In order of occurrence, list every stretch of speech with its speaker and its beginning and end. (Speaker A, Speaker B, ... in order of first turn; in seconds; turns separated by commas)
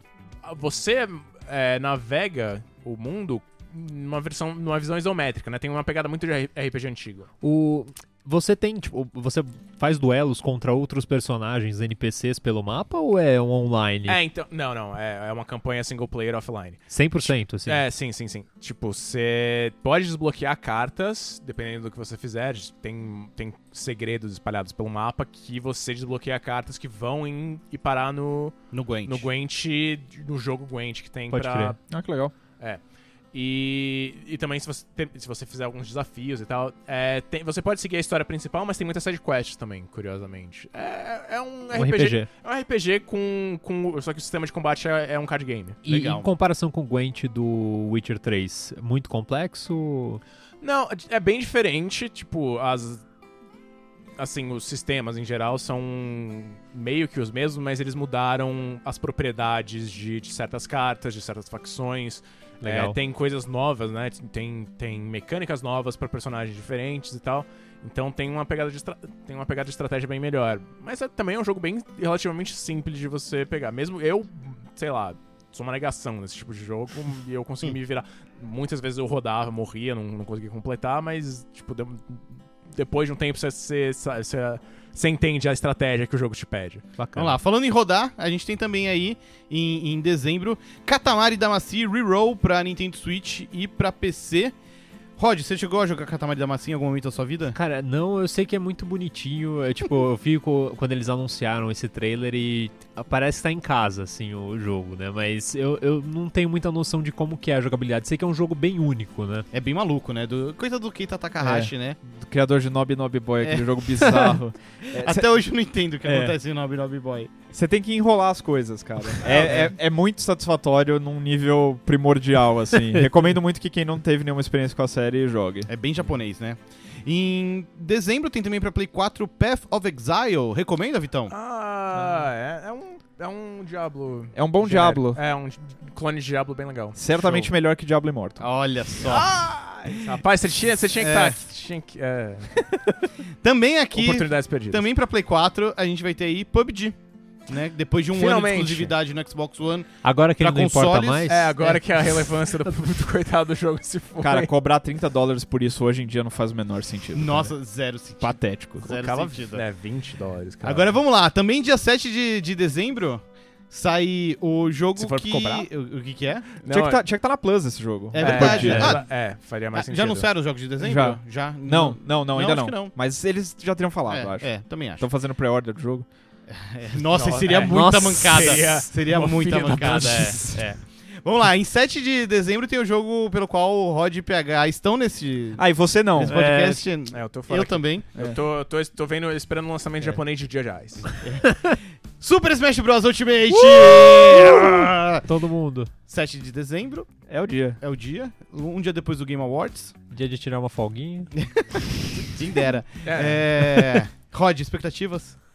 Speaker A: 0.4-7.3, Speaker B: 7.4-14.2, Speaker A: 14.1-31.8, Speaker B: 16.9-17.9, Speaker C: 28.7-29.3, Speaker B: 31.3-31.8, Speaker D: 31.9-32.3, Speaker A: 33.3-45.8, Speaker B: 41.7-42.3, Speaker B: 45.8-50.2, Speaker C: 45.9-46.3, Speaker A: 50.6-53.0, Speaker A: 54.2-86.9, Speaker B: 62.6-63.0, Speaker B: 87.0-87.4, Speaker C: 87.1-94.5, Speaker C: 95.2-97.5, Speaker B: 97.5-109.5, Speaker C: 109.5-112.0, Speaker D: 111.4-115.3, Speaker C: 113.4-114.1, Speaker C: 114.9-117.3, Speaker D: 117.5-125.7, Speaker C: 119.2-119.7, Speaker B: 122.7-123.0, Speaker C: 125.7-131.3, Speaker A: 131.3-137.5, Speaker D: 134.3-135.2, Speaker D: 136.9-138.5, Speaker C: 138.4-139.3, Speaker A: 139.0-142.7, Speaker C: 140.9-141.4, Speaker C: 143.4-146.9, Speaker A: 143.9-144.9, Speaker C: 147.5-151.8, Speaker A: 148.1-148.9, Speaker B: 150.0-151.5, Speaker A: 151.2-154.5, Speaker D: 154.2-157.5, Speaker C: 157.1-159.6, Speaker D: 158.2-158.9, Speaker A: 158.8-161.0, Speaker C: 160.6-166.6, Speaker A: 164.9-165.7, Speaker A: 166.6-167.0, Speaker D: 166.6-169.0, Speaker C: 168.1-169.1, Speaker A: 168.2-170.3, Speaker B: 168.7-168.9, Speaker C: 169.7-172.9, Speaker D: 170.8-176.1, Speaker C: 174.1-175.1, Speaker C: 176.5-180.7, Speaker A: 177.1-180.7, Speaker B: 177.5-178.8, Speaker B: 179.6-180.6, Speaker C: 181.2-188.1, Speaker D: 185.6-186.5, Speaker A: 186.4-191.1, Speaker C: 191.1-195.2, Speaker B: 194.3-195.9, Speaker C: 196.1-197.1, Speaker D: 197.3-197.8, Speaker C: 197.8-199.9, Speaker B: 200.1-201.3, Speaker C: 201.6-205.3, Speaker A: 203.0-203.5